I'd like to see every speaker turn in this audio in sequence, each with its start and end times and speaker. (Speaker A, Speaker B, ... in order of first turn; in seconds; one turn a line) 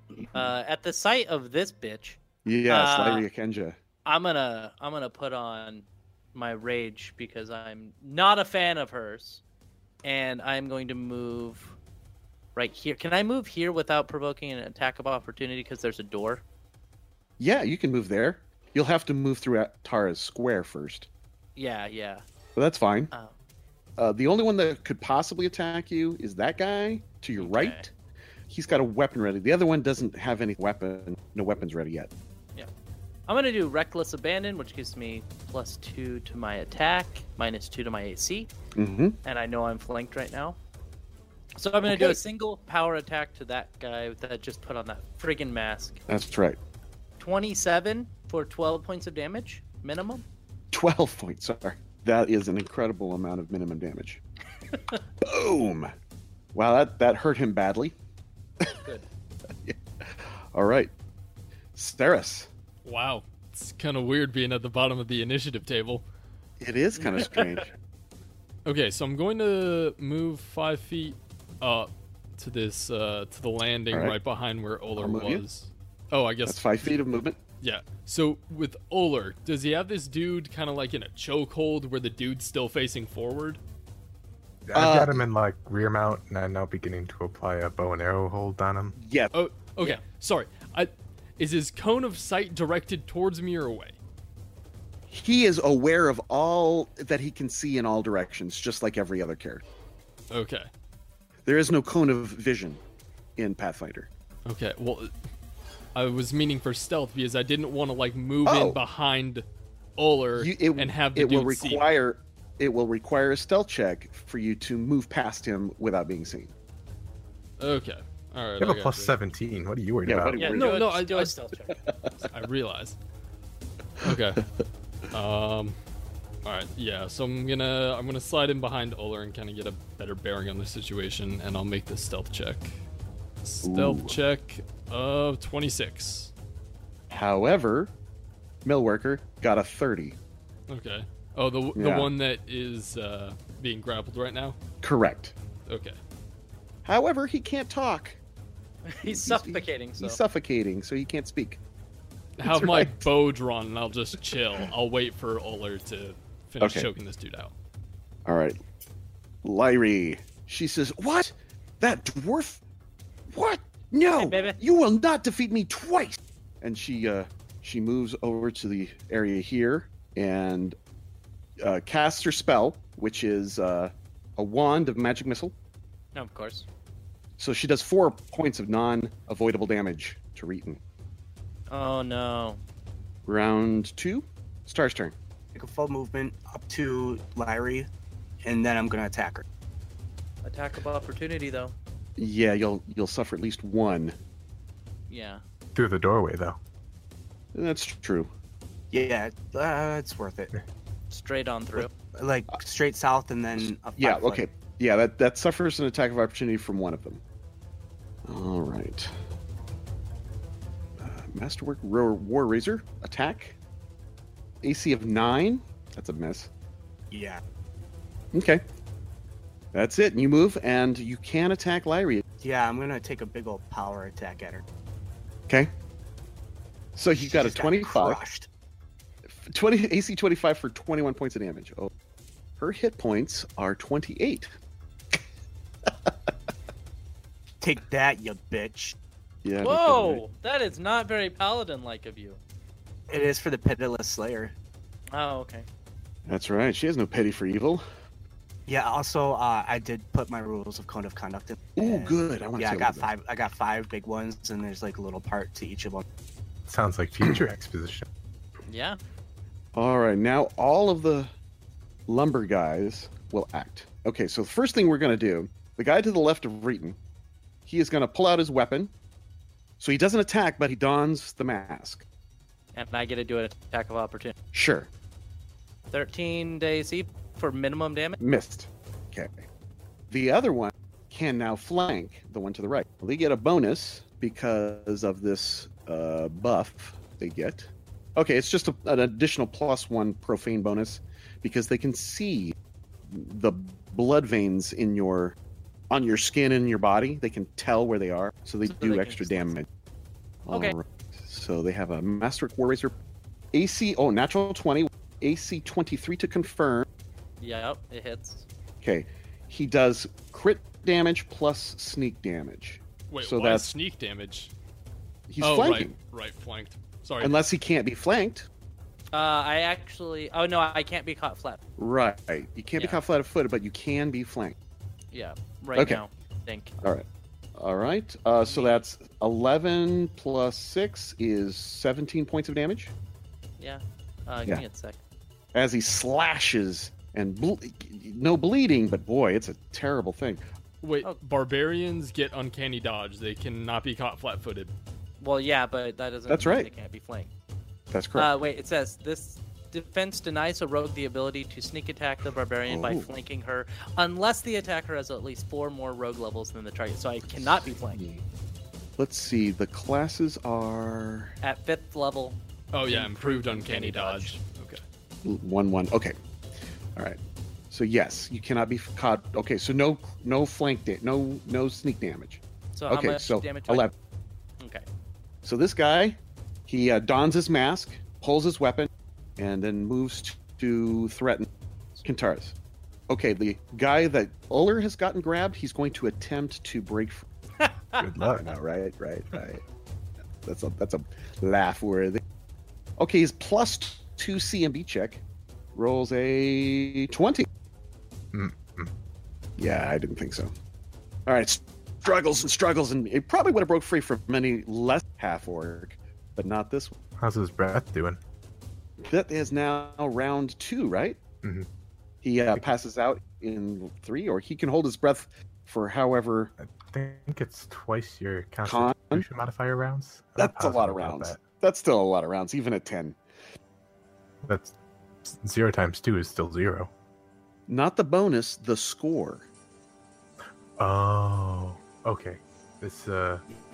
Speaker A: 0.3-3.3
Speaker B: 2.4-3.8
Speaker A: 4.0-9.4
Speaker A: 10.0-11.8
Speaker A: 12.6-16.4
Speaker B: 17.4-21.1
Speaker A: 21.6-22.2
Speaker B: 22.6-23.1
Speaker B: 24.0-27.9
Speaker A: 27.4-27.9
Speaker B: 28.5-32.1
Speaker A: 33.3-38.5
Speaker B: 38.8-39.2
Speaker A: 39.2-40.6
Speaker A: 41.5-46.0
Speaker B: 41.9-42.2
Speaker B: 46.1-46.6
Speaker A: 47.2-50.2
Speaker B: 50.7-54.2
Speaker B: 55.2-55.9
Speaker B: 56.5-57.9
Speaker B: 59.6-60.9
Speaker B: 61.7-62.5
Speaker C: 62.8-66.0
Speaker B: 66.6-67.7
Speaker A: 67.0-67.5
Speaker C: 68.6-76.9
Speaker B: 73.9-74.2
Speaker B: 75.0-75.4
Speaker B: 76.5-77.4
Speaker C: 77.6-83.6
Speaker D: 84.7-89.0
Speaker B: 84.7-85.2
Speaker B: 89.0-89.3
Speaker C: 89.3-93.9
Speaker B: 95.1-99.6
Speaker C: 100.3-100.7
Speaker B: 101.5-102.8
Speaker B: 103.4-104.1
Speaker C: 104.5-105.1
Speaker C: 105.9-109.4
Speaker B: 108.5-108.8
Speaker C: 110.0-111.8
Speaker B: 110.3-116.5
Speaker C: 117.6-119.1
Speaker D: 118.6-120.5
Speaker B: 120.0-120.8
Speaker A: 120.4-121.8
Speaker C: 120.5-121.3
Speaker B: 121.9-122.2
Speaker C: 122.2-123.0
Speaker C: 124.0-124.4
Speaker C: 125.1-125.8
Speaker C: 126.4-132.7
Speaker C: 133.4-136.3
Speaker B: 133.6-134.2
Speaker B: 137.1-137.9
Speaker B: 138.6-140.2
Speaker C: 140.7-144.6
Speaker B: 141.7-142.1
Speaker B: 144.8-145.3
Speaker C: 145.7-146.0
Speaker B: 146.8-148.2
Speaker A: 148.8-150.2
Speaker B: 149.0-151.6
Speaker C: 152.4-157.5
Speaker B: 152.4-153.1
Speaker B: 156.6-156.9
Speaker B: 158.2-158.6
Speaker B: 159.4-162.6
Speaker B: 163.3-170.8
Speaker A: 164.2-164.6
Speaker B: 171.6-175.5
Speaker A: 176.1-176.7
Speaker B: 177.4-180.8
Speaker A: 181.7-182.6
Speaker B: 183.2-185.1
Speaker E: 185.5-187.9
Speaker E: 188.4-189.4
Speaker A: 190.4-191.7
Speaker B: 192.2-194.1
Speaker A: 195.1-195.4
Speaker D: 195.7-196.6
Speaker B: 197.5-198.3
Speaker E: 198.9-200.5
Speaker A: 201.1-201.9
Speaker E: 202.1-204.4
Speaker B: 204.0-207.2
Speaker B: 208.2-209.1
Speaker B: 211.0-213.6
Speaker B: 214.6-216.5
Speaker E: 217.1-217.4
Speaker B: 218.3-218.6
Speaker B: 219.7-222.2
Speaker E: 222.4-224.6
Speaker B: 226.9-228.2
Speaker E: 227.2-228.5
Speaker B: 229.3-231.9
Speaker B: 232.6-234.5
Speaker E: 237.6-238.9
Speaker B: 239.4-240.2
Speaker A: 239.6-242.4
Speaker E: 243.1-244.5
Speaker A: 245.1-245.7
Speaker B: 246.2-247.8
Speaker E: 248.7-256.0
Speaker B: 251.8-253.1
Speaker D: 256.7-258.0
Speaker A: 258.7-259.0
Speaker B: 259.7-261.3
Speaker B: 262.1-267.0
Speaker B: 267.6-268.9
Speaker B: 269.8-272.0
Speaker A: 272.7-274.3
Speaker B: 274.5-274.9
Speaker A: 275.9-278.2
Speaker B: 278.2-279.4
Speaker B: 280.1-292.5
Speaker B: 293.1-295.4
Speaker B: 295.9-299.7
Speaker A: 298.6-299.5
Speaker B: 300.4-302.9
Speaker A: 300.5-300.8
Speaker B: 303.5-306.9
Speaker A: 307.4-308.4
Speaker B: 308.8-313.7
Speaker C: 313.1-314.5
Speaker B: 315.3-315.9
Speaker C: 315.4-317.4
Speaker B: 317.2-318.5
Speaker A: 319.1-321.6
Speaker B: 321.8-324.5
Speaker A: 322.8-323.0
Speaker A: 325.1-326.7
Speaker B: 325.8-326.0
Speaker B: 326.8-332.9
Speaker A: 328.4-328.8
Speaker A: 333.6-335.0
Speaker B: 335.5-340.4
Speaker C: 340.8-344.7
Speaker A: 345.2-347.3
Speaker B: 346.3-346.7
Speaker B: 347.9-348.3
Speaker A: 348.1-358.0
Speaker B: 352.7-353.1
Speaker B: 357.2-358.2
Speaker B: 359.0-361.3
Speaker A: 361.4-364.3
Speaker C: 362.7-364.8
Speaker B: 365.2-366.1
Speaker B: 367.7-373.9
Speaker A: 372.7-373.9
Speaker A: 374.6-374.9
Speaker B: 375.4-381.5
Speaker B: 382.0-382.5
Speaker B: 383.1-387.2
Speaker A: 387.6-388.1
Speaker D: 388.0-388.5
Speaker B: 388.3-389.6
Speaker B: 390.4-392.2
Speaker B: 393.0-395.2
Speaker B: 395.7-397.5
Speaker D: 398.3-398.9
Speaker B: 399.6-400.5
Speaker B: 401.2-406.9
Speaker D: 407.2-408.2
Speaker B: 409.0-411.2
Speaker D: 411.4-411.7
Speaker B: 412.2-416.5
Speaker D: 416.6-421.4
Speaker B: 418.6-419.2
Speaker B: 420.4-423.2
Speaker D: 424.4-424.7
Speaker D: 425.2-426.9
Speaker B: 427.7-429.4
Speaker D: 430.8-433.4